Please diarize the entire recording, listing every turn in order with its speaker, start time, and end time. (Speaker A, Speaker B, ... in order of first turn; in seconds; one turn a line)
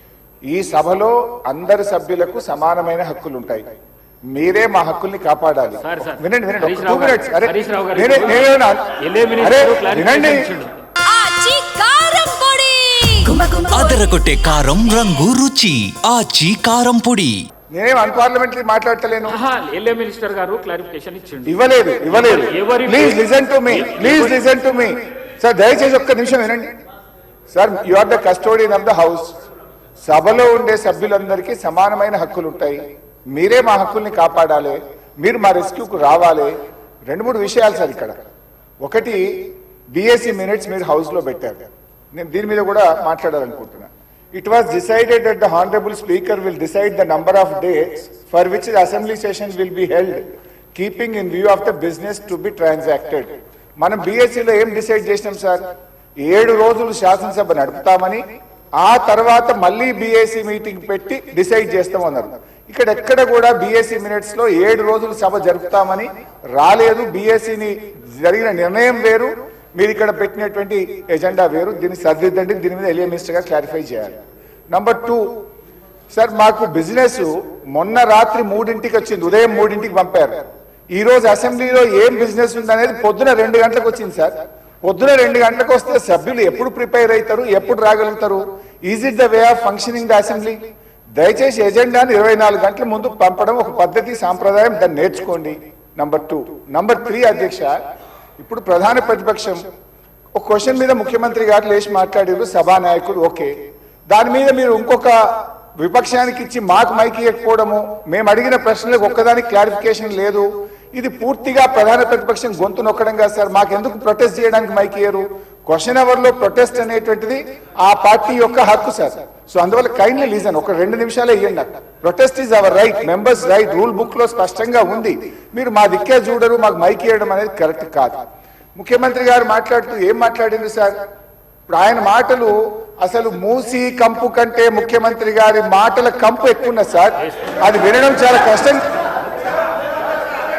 Speaker A: 0.5-3.7
Speaker A: 4.3-10.5
Speaker B: 5.9-8.5
Speaker B: 9.0-10.9
Speaker C: 11.0-13.7
Speaker D: 13.7-17.4
Speaker A: 17.7-19.4
Speaker B: 19.3-21.5
Speaker A: 21.4-26.8
Speaker B: 22.1-24.4
Speaker A: 27.5-29.4
Speaker A: 30.1-36.5
Speaker A: 37.1-38.2
Speaker A: 38.8-55.7
Speaker A: 56.2-58.2
Speaker A: 58.8-74.2
Speaker A: 74.7-75.3
Speaker A: 76.1-97.7
Speaker A: 98.4-99.6
Speaker A: 100.3-103.5
Speaker A: 104.1-128.2
Speaker A: 128.8-131.0
Speaker A: 131.7-138.9